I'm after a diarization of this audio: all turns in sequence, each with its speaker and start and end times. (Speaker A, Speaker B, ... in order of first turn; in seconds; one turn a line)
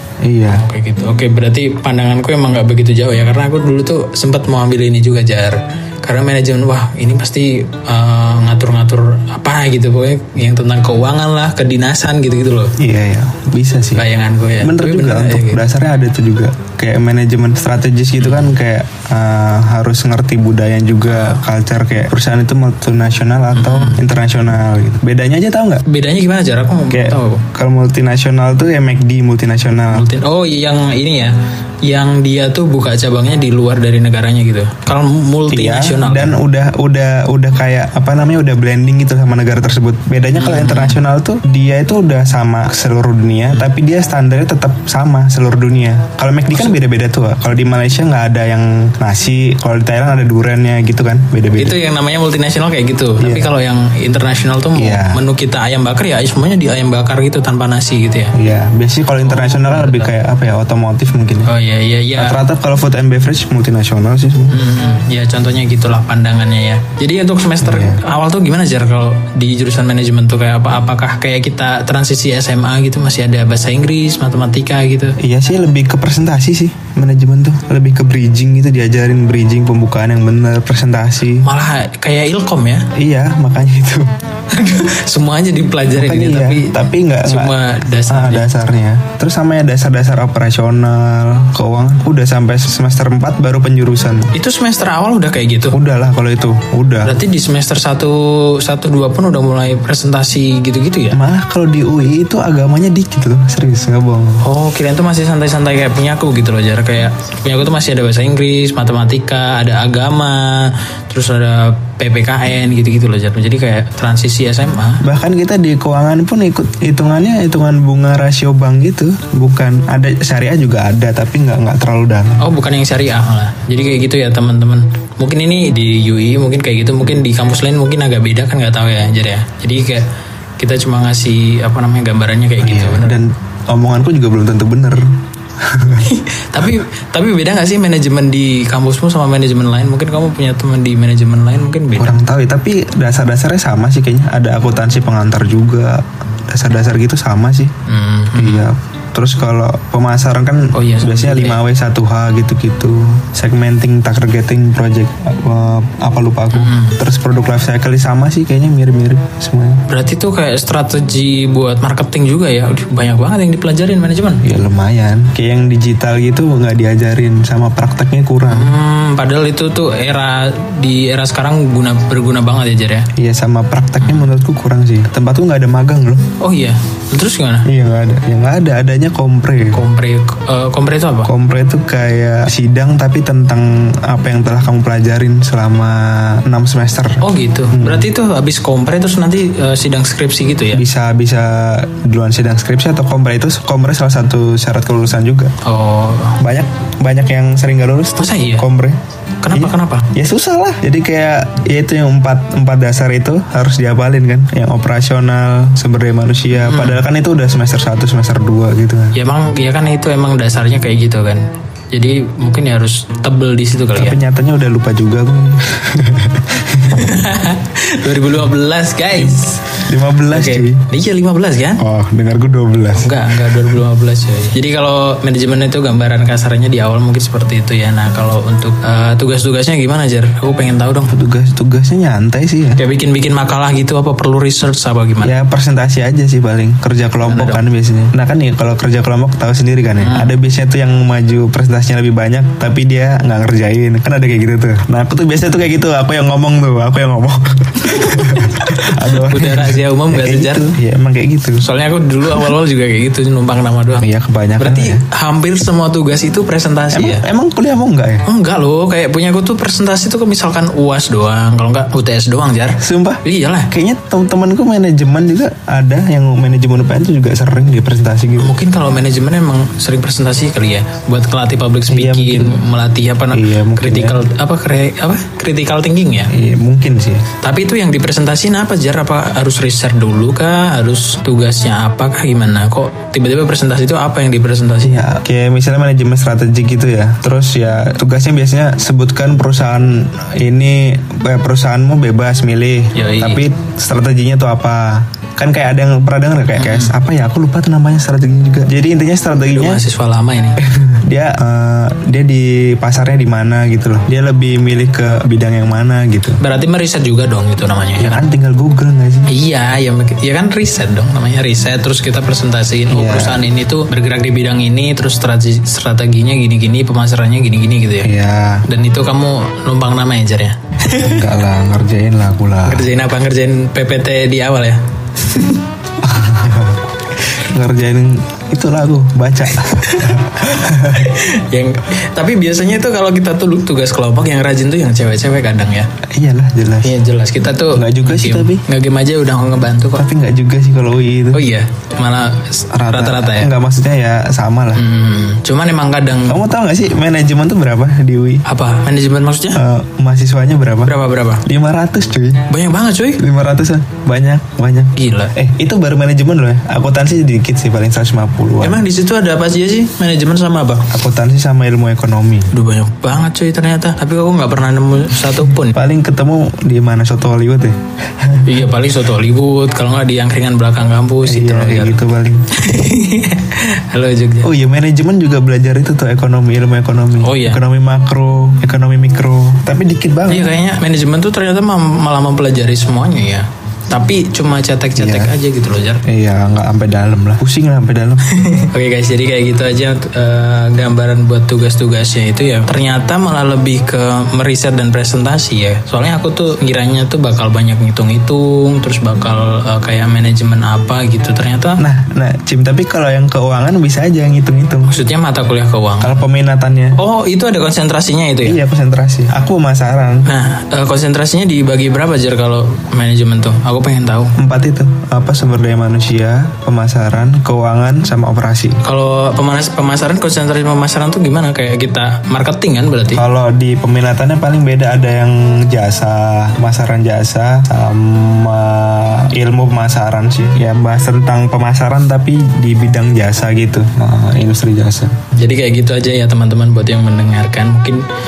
Speaker A: 0.2-0.7
Speaker B: 0.5-12.8
Speaker A: 12.8-14.1
Speaker B: 14.0-15.7
Speaker A: 14.6-25.8
Speaker B: 18.2-18.6
Speaker B: 23.5-24.1
Speaker B: 25.9-27.5
Speaker A: 26.9-30.1
Speaker B: 29.9-36.4
Speaker A: 35.5-51.8
Speaker B: 40.4-41.0
Speaker B: 51.5-58.3
Speaker A: 53.2-53.5
Speaker A: 54.8-55.2
Speaker A: 58.3-61.5
Speaker B: 59.2-60.1
Speaker B: 61.5-62.4
Speaker A: 62.2-64.6
Speaker B: 64.5-75.2
Speaker A: 67.6-68.0
Speaker A: 75.2-81.5
Speaker B: 81.4-82.9
Speaker A: 83.0-84.1
Speaker B: 84.5-88.5
Speaker A: 86.0-87.6
Speaker A: 88.1-94.3
Speaker B: 94.3-95.8
Speaker A: 95.7-97.2
Speaker B: 97.0-101.2
Speaker A: 101.1-104.5
Speaker B: 104.4-115.0
Speaker A: 115.0-122.4
Speaker B: 122.4-130.1
Speaker B: 130.6-133.2
Speaker A: 132.6-136.7
Speaker B: 136.0-142.2
Speaker A: 142.0-147.7
Speaker B: 147.9-148.7
Speaker A: 148.3-159.8
Speaker B: 150.7-151.6
Speaker B: 156.5-157.0
Speaker B: 159.9-164.4
Speaker A: 164.4-168.7
Speaker B: 168.5-173.1
Speaker A: 173.2-176.3
Speaker B: 174.0-174.3
Speaker B: 176.4-177.7
Speaker A: 177.7-179.8
Speaker B: 179.7-181.3
Speaker A: 181.3-188.1
Speaker B: 187.2-190.9
Speaker A: 190.7-195.5
Speaker B: 195.6-196.4
Speaker A: 196.4-199.0
Speaker B: 198.2-198.7
Speaker B: 199.4-200.1
Speaker A: 199.5-209.2
Speaker B: 206.5-207.0
Speaker B: 209.1-214.2
Speaker A: 213.9-217.1
Speaker B: 216.8-221.8
Speaker A: 219.1-220.8
Speaker A: 221.8-223.6
Speaker B: 222.9-231.2
Speaker A: 231.1-232.8
Speaker B: 232.8-235.3
Speaker A: 235.2-251.7
Speaker B: 237.2-237.6
Speaker B: 240.0-240.3
Speaker B: 247.9-250.7
Speaker B: 251.6-254.1
Speaker A: 254.0-255.0
Speaker B: 254.6-257.2
Speaker A: 256.9-258.3
Speaker B: 258.2-263.7
Speaker A: 262.8-268.6
Speaker B: 268.4-276.3
Speaker A: 271.9-272.6
Speaker A: 273.3-274.2
Speaker A: 276.3-277.3
Speaker B: 277.4-285.0
Speaker A: 284.8-299.8
Speaker B: 292.9-293.4
Speaker B: 296.6-296.9
Speaker B: 299.4-300.6
Speaker A: 300.6-306.4
Speaker B: 306.4-308.2
Speaker A: 308.0-309.3
Speaker B: 309.3-318.1
Speaker A: 312.9-313.4
Speaker A: 318.0-318.6
Speaker B: 318.7-321.3
Speaker A: 320.9-322.9
Speaker B: 322.6-325.6
Speaker A: 326.0-326.8
Speaker A: 327.4-331.1
Speaker B: 329.6-330.2
Speaker B: 330.9-335.9
Speaker A: 336.1-337.0
Speaker B: 336.8-340.1
Speaker A: 337.7-338.6
Speaker A: 339.9-341.4
Speaker B: 341.3-343.5
Speaker A: 342.7-344.8
Speaker B: 344.8-346.4
Speaker A: 346.3-348.4
Speaker B: 348.4-349.6
Speaker A: 349.6-350.9
Speaker B: 350.9-351.4
Speaker A: 351.5-352.5
Speaker B: 352.5-353.2
Speaker A: 353.2-358.8
Speaker B: 354.9-355.3
Speaker B: 358.6-360.9
Speaker A: 360.9-362.5
Speaker B: 362.5-365.8
Speaker A: 365.6-368.7
Speaker B: 368.4-372.0
Speaker A: 371.2-372.4
Speaker B: 372.5-374.5
Speaker A: 374.4-380.5
Speaker B: 377.2-377.6
Speaker B: 380.3-386.0
Speaker A: 385.0-385.4
Speaker A: 386.1-388.3
Speaker B: 388.3-401.8
Speaker A: 401.8-404.9
Speaker B: 404.9-406.2
Speaker A: 406.0-407.0
Speaker B: 407.0-408.6
Speaker A: 408.4-410.3
Speaker B: 410.3-414.4
Speaker A: 414.4-418.8
Speaker B: 418.8-423.2
Speaker A: 423.1-435.2
Speaker B: 435.4-438.0